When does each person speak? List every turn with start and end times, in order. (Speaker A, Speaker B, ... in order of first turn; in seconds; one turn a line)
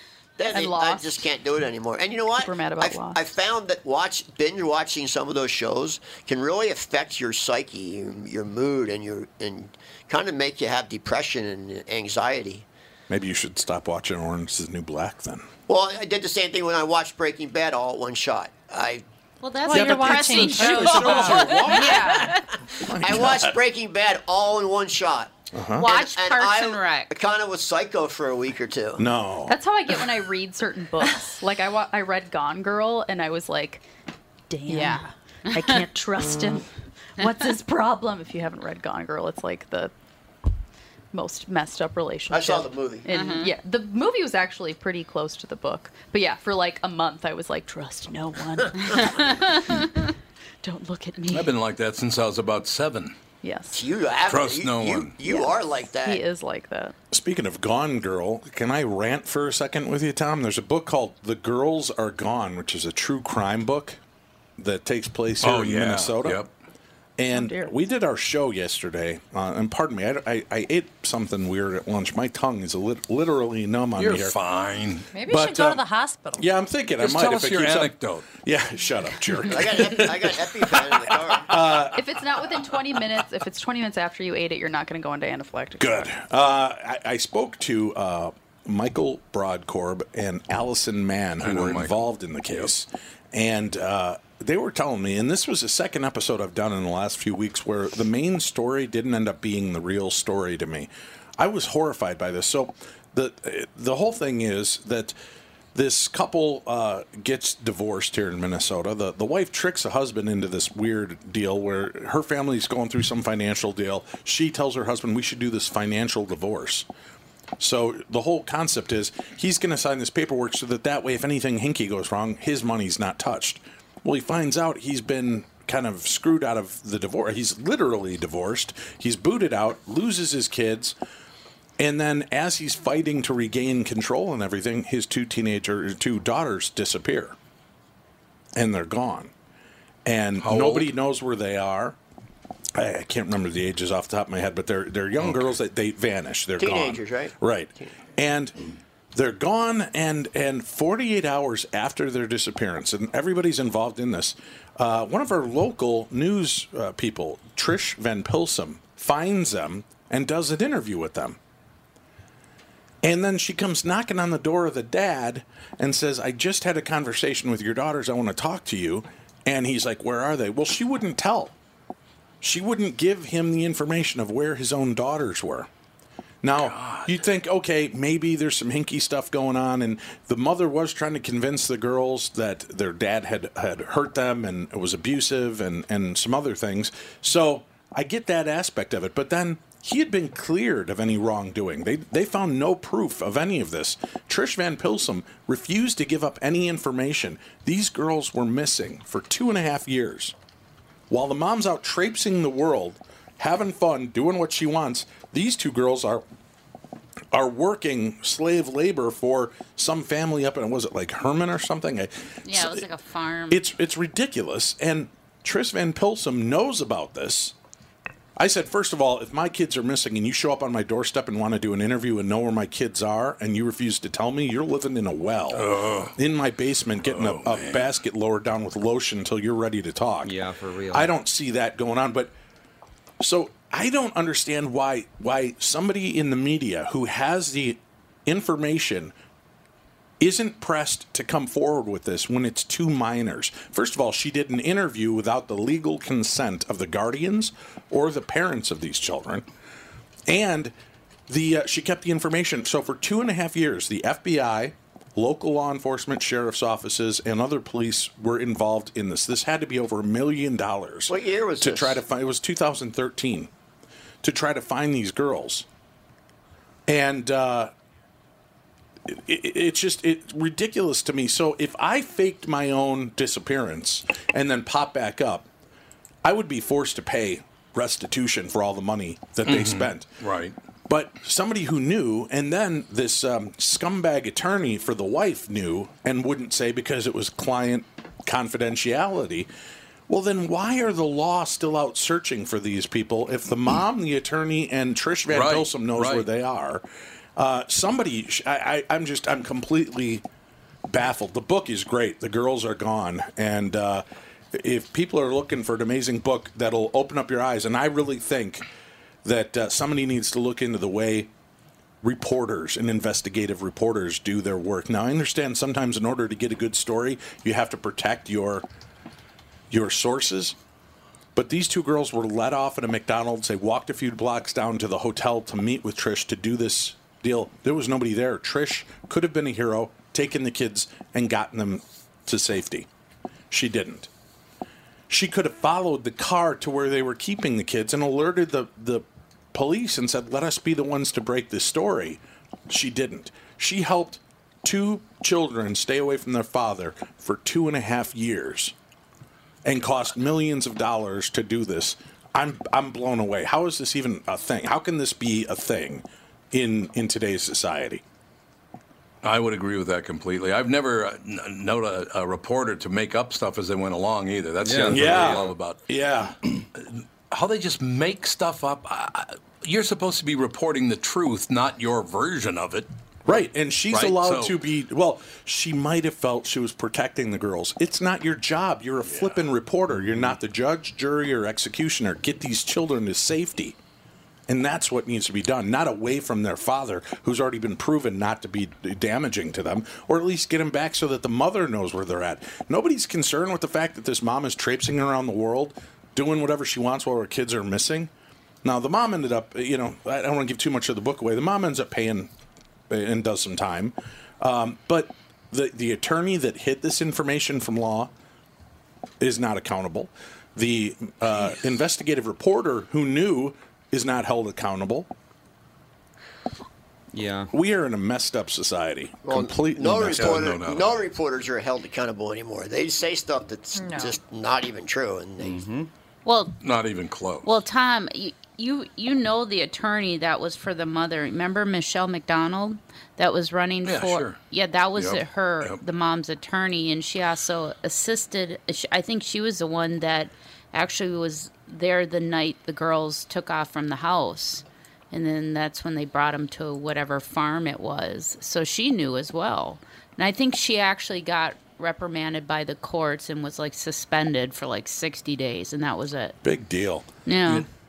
Speaker A: 0.4-12.6
Speaker B: 0.5-1.2
Speaker B: 2.4-3.2
Speaker C: 13.1-15.5
Speaker A: 15.7-19.0
Speaker D: 19.4-22.4
Speaker E: 19.6-21.6
Speaker C: 19.7-22.3
Speaker A: 21.7-22.4
Speaker C: 22.9-23.6
Speaker A: 23.0-29.1
Speaker C: 25.5-25.9
Speaker D: 25.8-27.1
Speaker C: 29.0-29.6
Speaker B: 29.4-33.8
Speaker B: 34.5-39.9
Speaker D: 34.6-35.8
Speaker B: 41.1-50.1
Speaker A: 42.3-43.1
Speaker D: 43.1-43.5
Speaker B: 50.6-51.5
Speaker F: 51.3-53.1
Speaker B: 53.4-53.8
Speaker A: 53.7-56.2
Speaker F: 54.3-55.1
Speaker B: 55.2-56.9
Speaker C: 57.1-64.0
Speaker C: 64.6-66.4
Speaker F: 65.4-66.5
Speaker C: 67.2-74.3
Speaker B: 67.3-67.7
Speaker F: 74.0-75.1
Speaker E: 75.1-76.4
Speaker C: 75.3-75.8
Speaker C: 76.4-82.1
Speaker F: 77.0-78.3
Speaker A: 79.5-81.8
Speaker B: 81.9-86.1
Speaker C: 85.8-105.1
Speaker F: 91.4-92.0
Speaker C: 105.7-116.9
Speaker C: 117.6-130.9
Speaker C: 131.8-137.3
Speaker C: 138.6-139.3
Speaker C: 140.0-142.0
Speaker F: 140.4-140.9
Speaker C: 142.7-148.5
Speaker F: 145.2-145.5
Speaker A: 146.6-147.9
Speaker C: 149.1-161.4
Speaker C: 163.0-171.5
Speaker C: 172.4-175.7
Speaker C: 176.4-200.3
Speaker F: 176.6-177.1
Speaker C: 201.1-206.2
Speaker C: 207.3-212.9
Speaker D: 212.4-213.6
Speaker C: 213.5-217.5
Speaker C: 218.3-230.3
Speaker F: 225.5-226.1
Speaker F: 227.1-227.8
Speaker G: 230.2-231.1
Speaker C: 230.9-232.3
Speaker C: 233.2-239.1
Speaker C: 240.2-249.5
Speaker C: 250.3-250.7
Speaker C: 251.3-263.5
Speaker A: 261.1-262.0
Speaker C: 264.2-265.6
Speaker C: 266.9-267.7
Speaker C: 269.1-275.5
Speaker C: 276.2-280.1
Speaker F: 279.4-280.6
Speaker C: 280.9-289.5
Speaker C: 290.1-296.8
Speaker F: 295.3-296.3
Speaker C: 297.4-300.2
Speaker C: 300.9-308.6
Speaker C: 309.2-311.3
Speaker C: 312.0-318.6
Speaker C: 319.7-320.6
Speaker C: 321.3-332.9
Speaker C: 333.5-334.1
Speaker C: 335.1-348.7
Speaker C: 349.6-358.0
Speaker F: 359.2-365.8
Speaker G: 364.6-365.4
Speaker C: 364.9-366.4
Speaker F: 366.8-372.9
Speaker C: 373.2-383.8
Speaker F: 373.9-374.6
Speaker F: 379.1-379.4
Speaker G: 379.9-380.4
Speaker C: 384.5-398.1
Speaker C: 398.6-402.3
Speaker C: 402.9-408.1
Speaker C: 409.2-415.1
Speaker G: 417.1-417.5
Speaker C: 417.5-420.5
Speaker A: 419.2-425.6
Speaker F: 420.1-421.0
Speaker E: 423.8-424.1
Speaker G: 425.4-425.9
Speaker D: 426.2-426.6
Speaker F: 426.6-427.5
Speaker D: 427.4-456.4
Speaker F: 433.8-434.4
Speaker F: 434.9-435.8
Speaker C: 456.4-457.1
Speaker D: 457.2-457.7